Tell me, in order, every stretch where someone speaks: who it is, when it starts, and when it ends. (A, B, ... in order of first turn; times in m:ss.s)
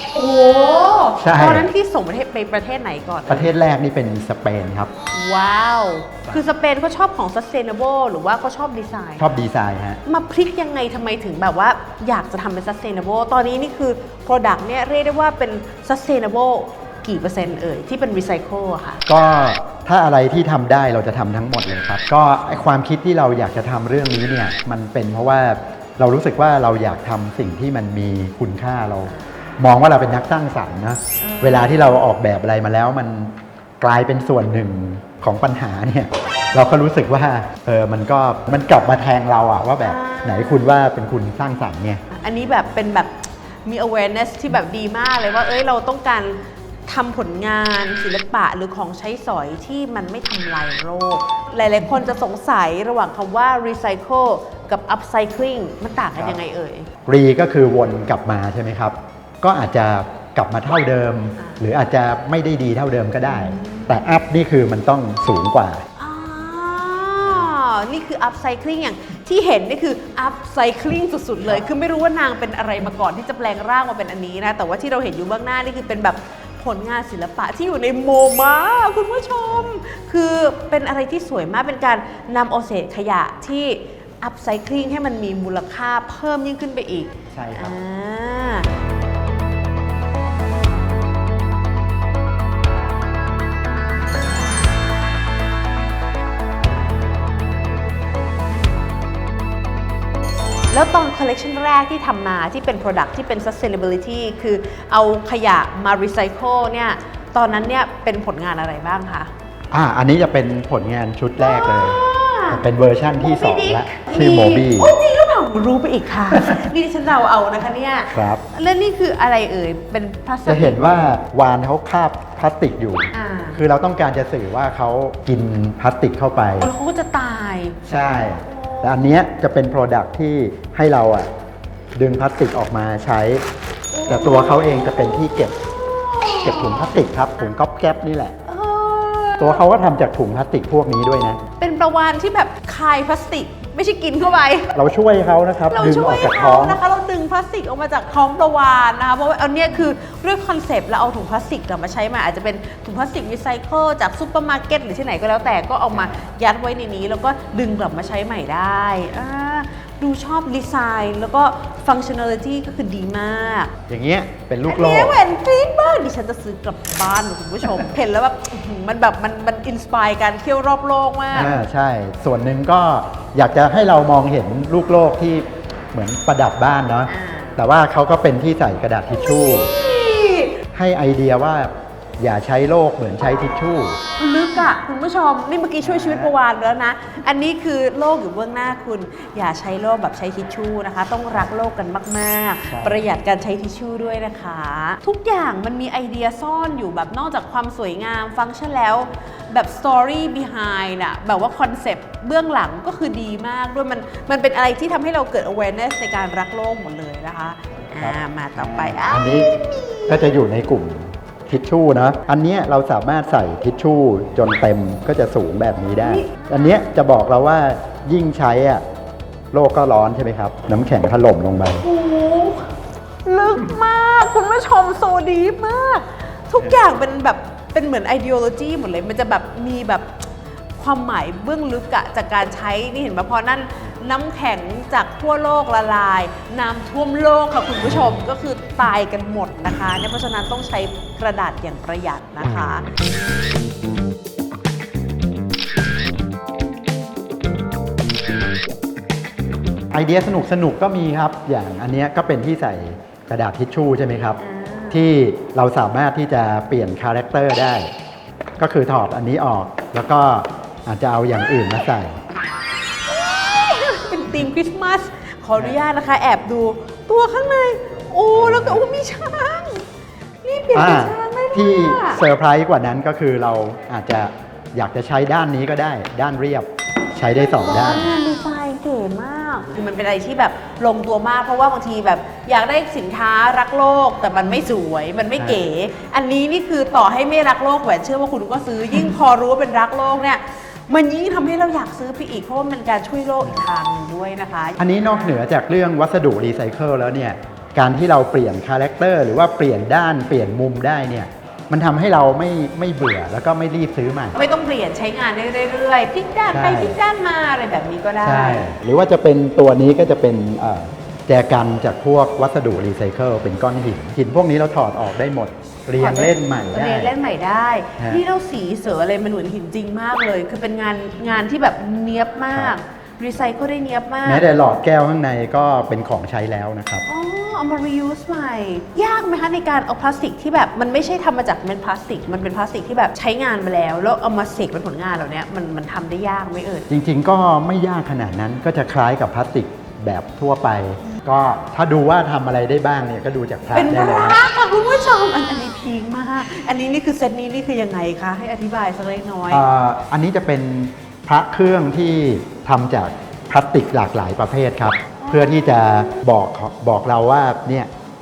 0:00.1-0:03.5 A
0:01.2-0:01.7 B
0:03.3-0:04.9 B
0:05.1-0:09.3 A
0:09.2-0:10.0 B
0:10.0-0:19.0 A
0:19.1-0:42.0 B
0:29.1-0:29.5 A
0:31.2-0:31.9 A
0:39.8-0:40.7 A
0:42.1-0:56.9 A
0:57.0-1:05.8 B
1:03.2-1:04.0 A
1:06.0-1:28.7 A
1:07.2-1:07.5 B
1:27.3-1:27.8 B
1:40.7-1:49.3 A
1:49.7-1:54.9 B
1:51.4-1:52.6 A
1:53.2-2:00.8 A
1:56.4-1:56.6 B
1:58.1-1:58.4 B
2:00.4-2:06.7 B
2:03.1-2:03.6 A
2:06.6-2:09.0 A
2:07.8-2:11.3 B
2:12.0-2:13.4 B
2:13.9-2:15.2 A
2:14.0-2:15.6 B
2:15.7-2:17.0 A
2:16.4-2:18.4 B
2:18.4-2:19.6 A
2:19.4-2:21.4 B
2:21.6-2:24.8 A
2:24.7-2:26.8 B
2:25.7-2:43.7 A
2:35.9-2:36.2 B
2:43.9-2:45.2 B
2:44.6-2:51.5 A
2:51.3-2:59.7 B
2:57.1-2:57.6 A
2:59.5-3:00.6 A
3:00.7-3:04.0 B
3:04.2-3:30.3 A
3:05.8-3:06.3 B
3:12.7-3:13.0 B
3:28.0-3:38.8 B
3:36.0-3:36.7 A
3:39.5-3:41.8 B
3:41.8-3:42.7 A
3:43.2-3:50.2 A
3:50.8-4:02.9 A
4:09.9-4:14.4 B
4:14.4-4:15.1 A
4:14.9-4:17.9 B
4:18.6-4:22.2 B
4:23.1-4:29.8 A
4:28.3-4:28.8 B
4:30.4-4:32.2 A
4:30.7-4:38.1 B
4:37.6-4:55.4 A
4:45.4-4:45.6 B
4:54.8-5:04.4 B
5:04.3-5:08.7 A
5:06.5-5:07.0 B
5:08.2-5:17.1 B
5:16.0-5:24.4 A
5:18.0-5:18.2 B
5:24.2-5:27.0 B
5:27.1-5:36.9 A
5:36.9-5:44.4 B
5:43.7-5:49.6 A
5:49.5-5:57.9 B
5:55.2-5:56.2 A